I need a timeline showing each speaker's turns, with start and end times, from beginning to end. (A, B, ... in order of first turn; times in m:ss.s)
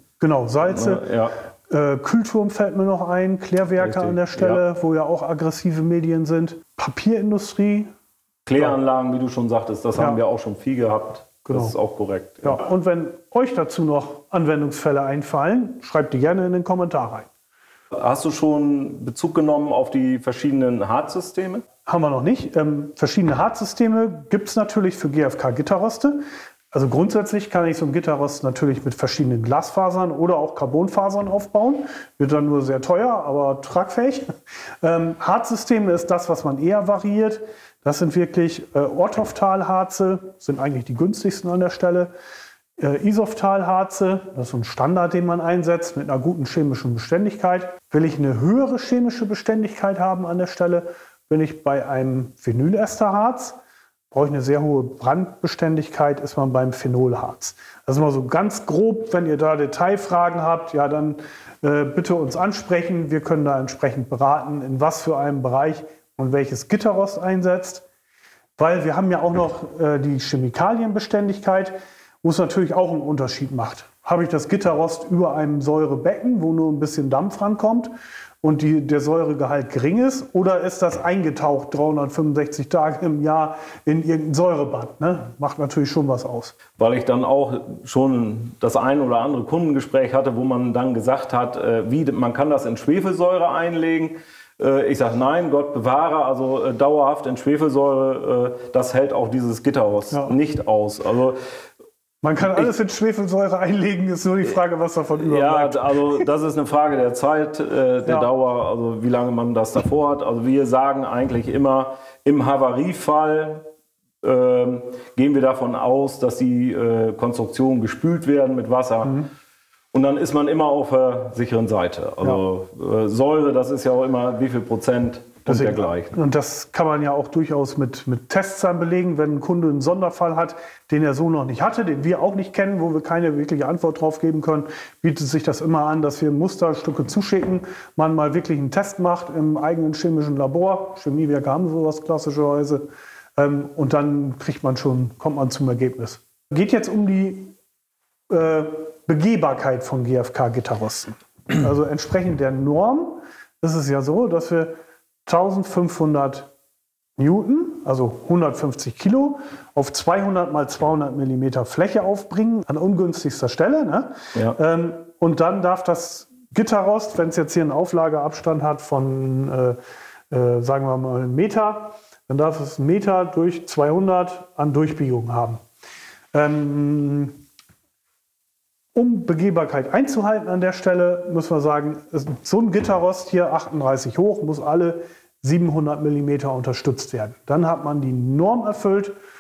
0:00.2-0:01.0 A
0:00.7-0:01.4 B
0:01.7-0:07.9 A
0:03.8-0:04.6 B
0:08.5-0:12.6 B
0:11.4-0:11.8 A
0:12.4-0:17.3 A
0:17.9-0:21.6 B
0:21.9-0:26.2 A
0:26.7-0:34.3 A
0:34.8-0:42.1 A
0:42.8-0:53.6 A
0:54.1-1:07.8 A
1:08.6-1:17.9 A
1:18.4-1:26.6 A
1:26.8-1:41.4 B
1:40.1-1:40.4 A
1:42.2-1:46.3 A
1:45.2-1:53.6 B
1:54.2-1:59.3 B
1:59.9-2:06.1 B
2:05.5-2:22.8 A
2:23.4-2:27.5 A
2:28.3-2:34.8 A
2:35.3-2:36.5 A
2:37.2-2:49.8 A
2:50.3-2:55.6 A
2:56.3-2:57.4 A
2:59.0-3:09.1 A